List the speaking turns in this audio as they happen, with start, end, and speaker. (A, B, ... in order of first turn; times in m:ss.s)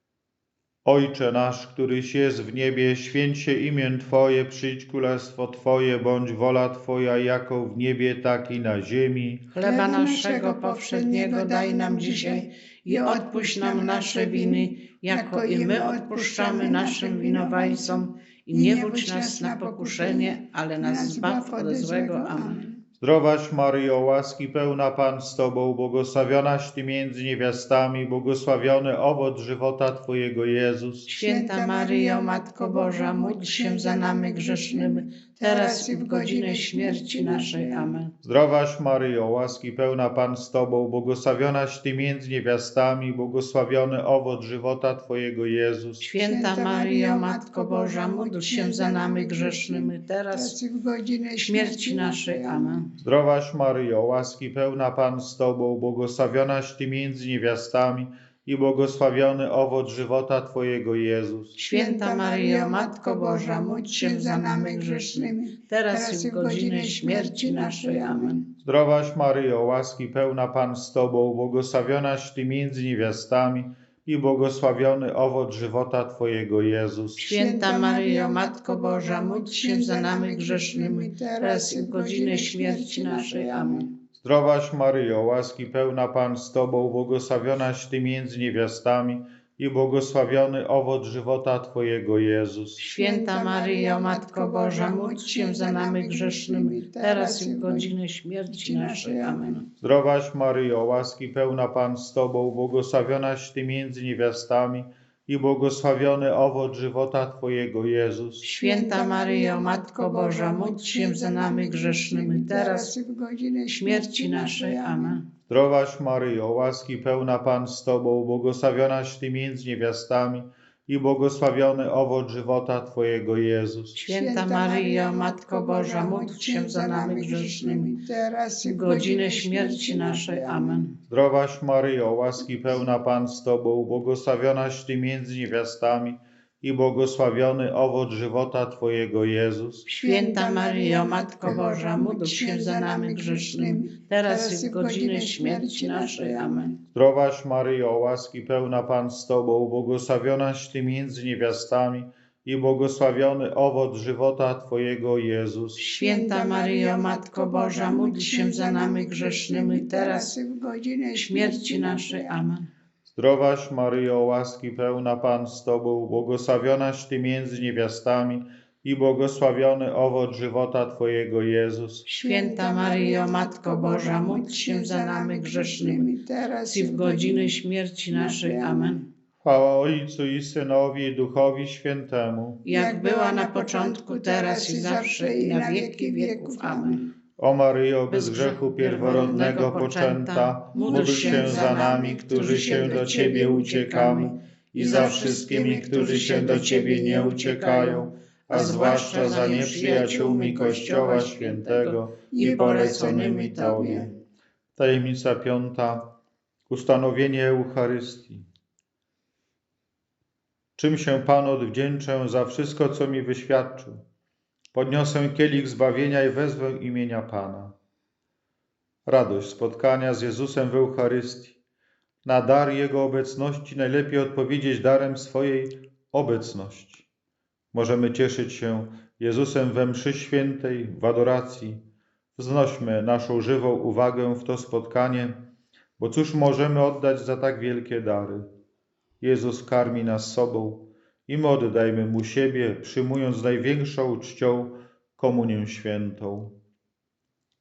0:00.8-0:09.5 A
0:09.5-0:22.6 B
0:09.6-0:18.0 C
0:18.5-0:22.8 C
0:23.0-0:31.1 A
0:31.1-0:38.0 C
0:31.1-0:38.1 B
0:38.2-0:46.1 A
0:46.0-0:50.6 B
0:46.2-0:52.8 C
0:51.4-0:52.9 B
0:53.0-1:01.6 A
1:01.6-1:08.4 B
1:01.6-1:08.4 C
1:08.6-1:17.3 A
1:17.2-1:23.9 C
1:17.2-1:23.9 B
1:24.2-1:32.8 A
1:32.8-1:37.9 C
1:32.8-1:39.7 B
1:38.5-1:39.6 C
1:39.8-1:48.5 A
1:48.4-1:52.9 B
1:48.6-1:55.2 C
1:53.8-1:55.2 B
1:55.5-2:04.0 A
2:04.0-2:10.8 C
2:04.0-2:07.9 B
2:08.6-2:11.0 B
2:11.1-2:19.9 A
2:19.9-2:26.8 B
2:19.9-2:26.8 C
2:26.9-2:35.8 A
2:35.8-2:40.3 B
2:35.8-2:42.4 C
2:41.2-2:42.7 B
2:43.1-2:52.0 A
2:52.1-2:56.1 B
2:52.1-2:57.5 C
2:56.7-2:59.1 B
2:58.1-2:59.0 C
2:59.4-3:02.6 A
3:02.6-3:07.0 B
3:02.7-3:07.1 C
3:07.4-3:24.1 A
3:08.1-3:13.6 B
3:10.7-3:17.4 C
3:14.8-3:24.1 B
3:18.5-3:21.2 C
3:22.3-3:24.1 C
3:24.8-3:26.1 A
3:26.7-3:28.5 A
3:30.8-3:34.0 A
3:34.7-3:37.8 A
3:39.1-3:41.6 A
3:42.2-3:47.1 A
3:47.7-3:51.8 A
3:52.4-3:55.5 A
3:56.0-3:58.5 A
3:59.2-4:06.6 A